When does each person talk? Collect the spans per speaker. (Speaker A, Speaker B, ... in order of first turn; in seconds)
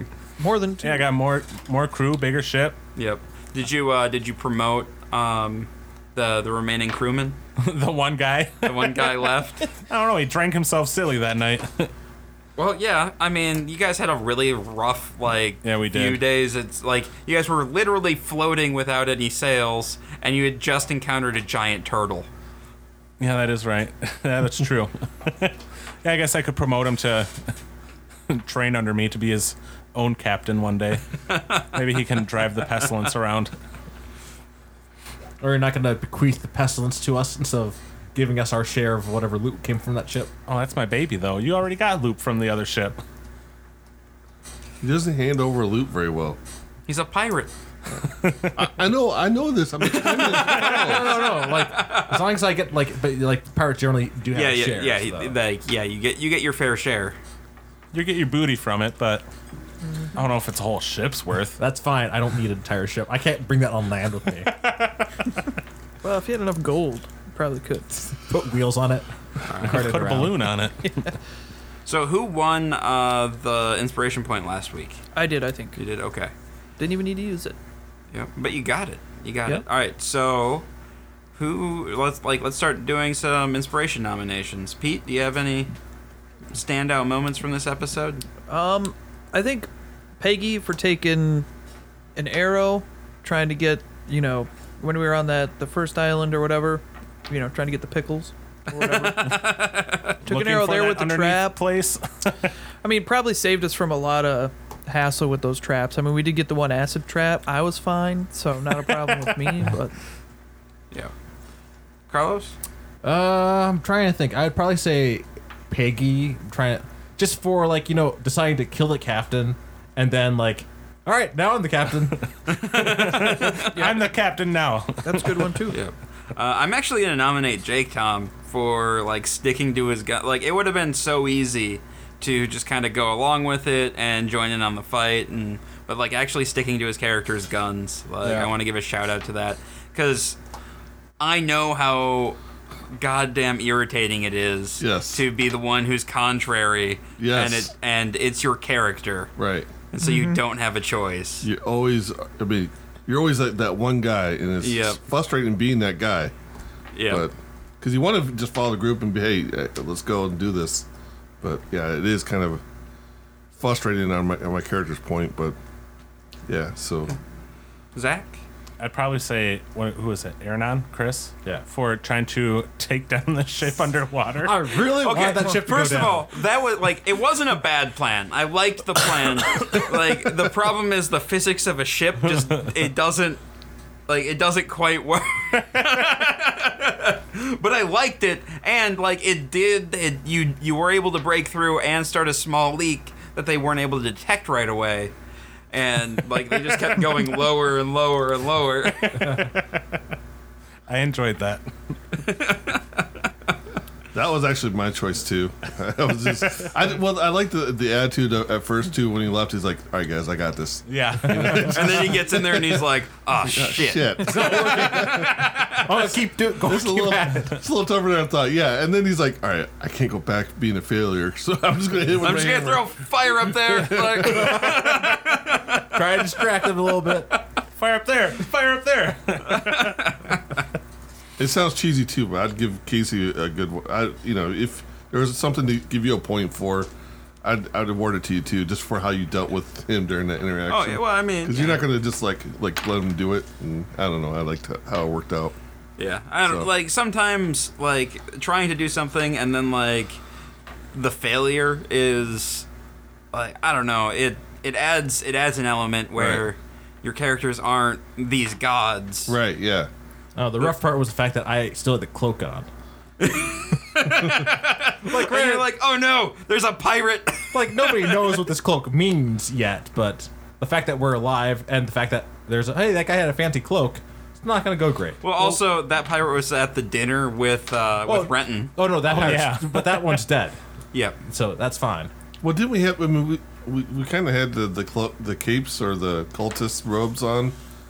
Speaker A: 0.4-1.1, 59.8-60.1, 66.0-68.2, 75.1-75.8, 76.8-77.6, 88.5-89.7, 90.2-91.5, 92.2-99.3, 100.2-101.5, 102.8-109.9, 123.7-124.0, 125.0-125.8, 150.0-150.4
Speaker B: 0.8-2.8, 7.6-9.1, 9.8-11.9, 15.6-16.2, 23.2-27.3, 28.3-33.5, 40.5-43.0, 48.1-48.5, 57.9-59.2, 60.1-61.6, 64.5-65.1, 69.6-71.1, 100.2-102.5, 122.2-125.5, 168.8-174.6, 198.9-200.0, 200.9-201.6, 210.8-211.8, 227.7-230.1, 279.1-280.2
Speaker C: 3.0-7.4, 8.6-9.7, 12.6-22.3, 31.3-31.6, 46.9-47.5, 50.5-52.1, 54.3-57.2, 69.5-69.9, 71.8-75.0, 75.7-76.3, 78.1-80.7, 81.3-85.7, 86.5-88.2, 98.7-100.2, 112.1-112.5, 122.5-123.9, 125.7-140.4, 141.2-142.4, 142.9-149.3, 149.9-151.4, 154.6-155.0, 156.9-157.3, 167.9-168.4, 174.9-183.4, 184.1-195.1, 195.7-199.4, 202.2-203.0, 211.6-215.8, 222.2-226.4, 227.1-227.4, 229.5-230.6, 240.7-241.8, 246.0-250.2, 250.9-252.7, 253.3-259.4, 263.2-268.4, 275.2-278.7
Speaker D: 35.4-40.3, 50.2-55.4, 61.6-64.6, 68.3-70.4, 113.0-122.2, 174.4-176.3, 211.2-212.1, 214.2-217.6, 224.3-225.0, 225.9-227.3, 260.4-262.7, 265.0-265.7, 267.5-275.6, 278.0-280.6, 281.2-282.1
Speaker E: 44.8-46.4, 48.5-51.4, 138.2-138.5, 144.8-145.3, 147.2-147.7, 149.4-149.7, 151.4-156.3, 157.1-160.8, 161.4-162.6, 163.5-165.6, 166.5-167.1, 204.1-212.9, 213.4-215.5, 216.6-224.7, 231.4-236.9, 237.4-245.5, 246.4-246.7, 256.1-256.5, 259.3-259.9, 282.4-287.5